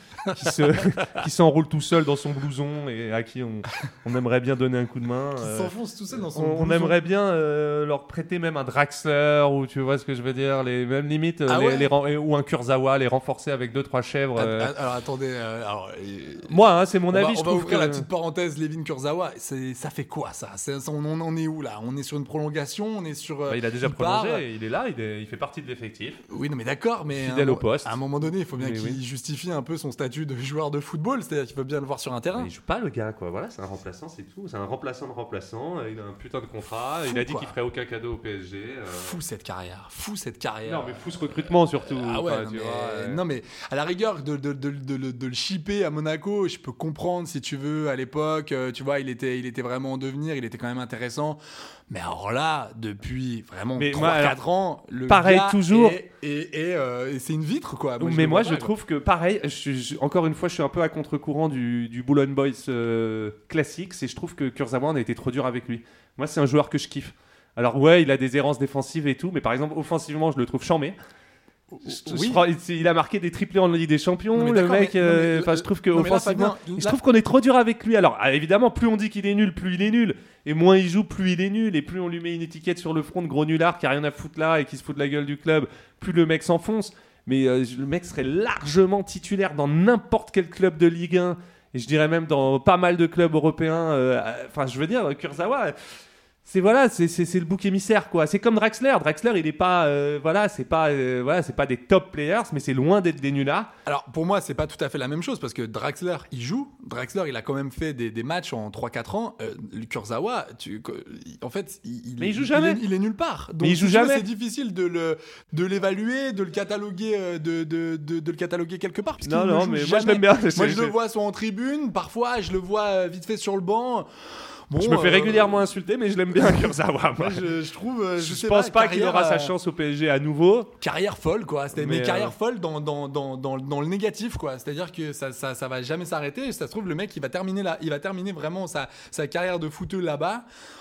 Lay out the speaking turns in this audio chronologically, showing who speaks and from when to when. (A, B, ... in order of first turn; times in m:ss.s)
0:00.3-0:14.7 A
0:05.4-0:07.0 B
0:11.5-0:11.9 B
0:14.4-0:16.5 B
0:16.5-0:18.1 A
0:17.1-0:24.4 B
0:23.5-0:26.2 A
0:26.3-0:32.5 B
0:27.1-0:29.0 A
0:32.3-0:39.2 A
0:37.1-0:37.6 B
0:39.0-0:58.7 B
0:40.7-0:43.2 A
0:53.8-0:54.4 A
0:55.1-0:56.0 A
0:58.0-1:11.0 A
1:11.7-1:12.4 B
1:11.9-1:35.8 A
1:14.4-1:17.0 B
1:36.4-1:43.7 A
1:43.9-2:04.1 B
1:52.2-1:52.8 A
1:53.6-1:54.3 A
1:59.2-2:01.0 A
2:04.7-2:05.7 B
2:04.8-2:07.5 A
2:06.4-2:09.5 B
2:08.2-2:10.7 A
2:10.8-2:20.4 B
2:11.7-2:12.3 A